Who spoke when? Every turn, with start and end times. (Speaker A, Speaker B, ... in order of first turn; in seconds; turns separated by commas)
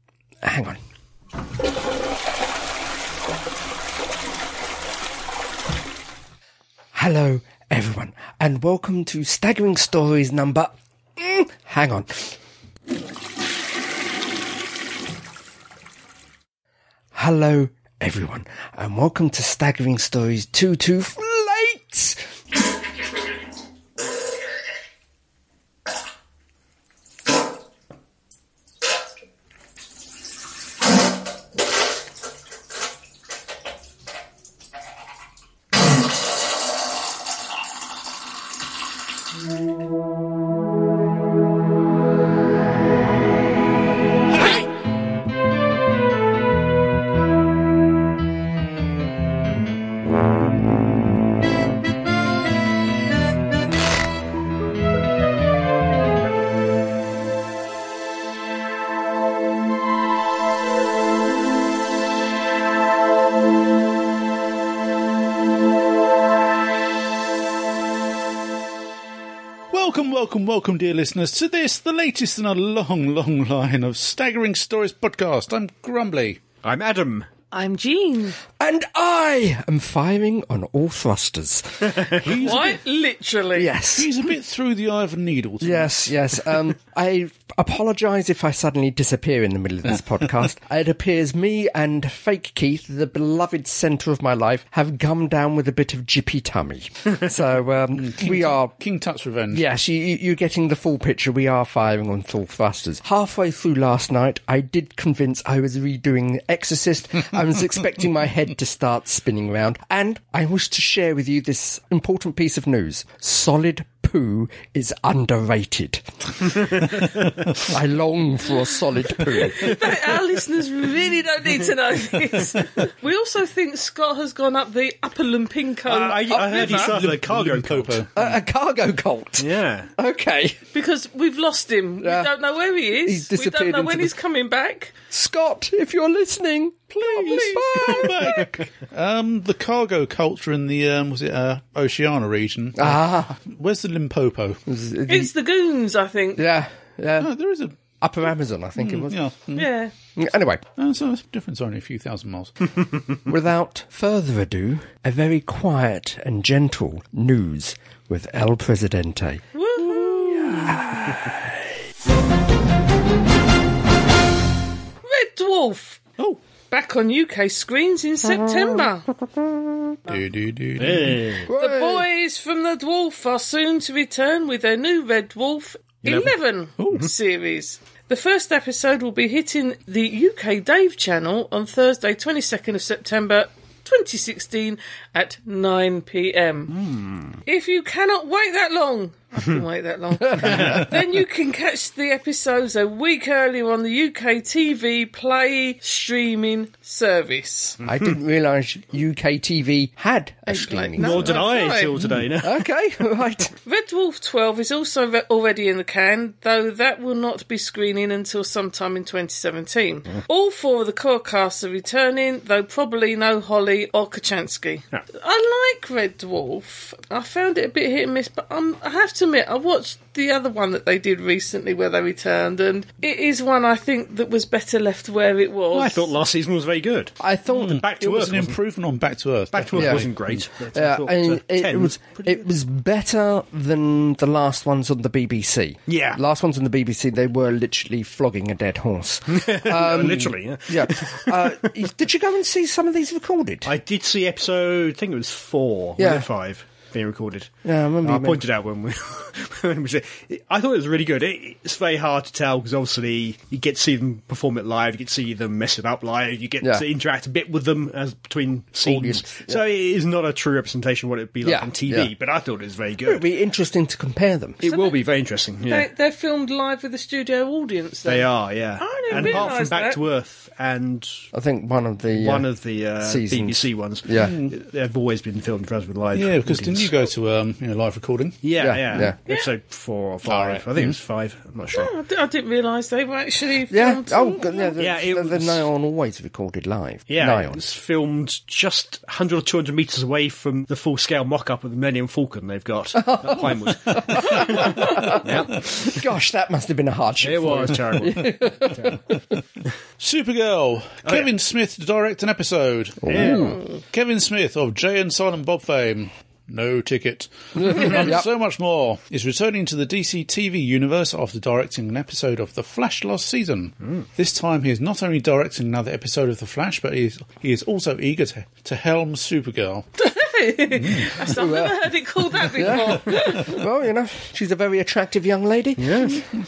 Speaker A: 0.4-0.8, Speaker A: 6.9-12.3, Speaker A: 17.1-22.2, Speaker B: 69.7-76.4, Speaker C: 76.6-77.3, Speaker D: 77.5-78.4, Speaker A: 78.6-82.2, Speaker C: 81.8-82.2, Speaker B: 82.2-82.8, Speaker D: 82.3-83.7, Speaker A: 83.5-84.1, Speaker B: 83.9-86.4, Speaker A: 85.6-98.7, Speaker B: 98.0-99.6, Speaker A: 99.5-119.8, Speaker D: 119.3-127.0, Speaker C: 125.8-128.1, Speaker B: 126.5-128.2, Speaker A: 128.1-130.6, Speaker C: 129.4-129.9, Speaker D: 130.7-134.9, Speaker A: 132.0-132.3, Speaker A: 133.0-134.1, Speaker A: 135.1-138.4, Speaker B: 137.1-144.6, Speaker D: 137.1-137.6, Speaker A: 142.8-143.3, Speaker A: 144.7-145.3, Speaker D: 145.1-146.4, Speaker A: 146.4-147.3, Speaker B: 147.2-147.8, Speaker A: 148.0-149.2, Speaker B: 148.8-149.7, Speaker D: 149.5-149.9, Speaker A: 150.2-150.6, Speaker B: 150.8-152.7, Speaker A: 153.3-161.5, Speaker D: 159.5-160.6, Speaker B: 160.5-160.9, Speaker D: 165.0-166.0, Speaker D: 166.7-169.1, Speaker A: 168.7-169.9, Speaker B: 170.1-171.3, Speaker C: 170.8-171.5, Speaker A: 171.4-172.1, Speaker D: 171.5-186.8, Speaker C: 176.0-176.3, Speaker B: 176.8-177.1, Speaker C: 186.7-187.4, Speaker D: 187.4-197.8, Speaker A: 190.4-190.7, Speaker C: 190.5-190.9, Speaker A: 197.8-201.4, Speaker D: 200.5-202.0, Speaker C: 201.0-202.7, Speaker A: 202.4-203.5, Speaker D: 203.7-226.1, Speaker C: 225.7-228.6, Speaker A: 227.2-227.8, Speaker B: 227.5-230.4, Speaker C: 229.5-232.4, Speaker A: 229.8-230.1, Speaker A: 230.7-243.7, Speaker C: 235.9-236.2, Speaker C: 239.3-241.5, Speaker C: 243.6-263.2, Speaker A: 246.0-246.3, Speaker A: 247.6-248.4, Speaker A: 258.8-259.6, Speaker A: 261.4-262.1, Speaker A: 263.0-264.7, Speaker D: 264.6-265.0, Speaker C: 264.6-265.9, Speaker D: 265.6-270.0, Speaker C: 268.1-271.2, Speaker A: 271.3-272.5, Speaker C: 272.1-276.9, Speaker A: 273.0-274.3, Speaker B: 274.1-274.5, Speaker B: 276.1-278.4, Speaker C: 278.4-281.9, Speaker A: 278.6-279.1, Speaker B: 280.2-280.9, Speaker D: 281.7-284.7, Speaker A: 283.7-287.6, Speaker C: 284.8-285.6, Speaker C: 287.1-295.9, Speaker A: 292.9-299.2, Speaker B: 293.9-294.5, Speaker C: 297.2-299.0, Speaker B: 300.0-319.9, Speaker A: 303.1-303.6, Speaker C: 303.1-303.6, Speaker A: 307.6-308.2, Speaker D: 320.0-323.6, Speaker B: 320.8-321.2, Speaker A: 321.2-326.2, Speaker C: 325.8-326.2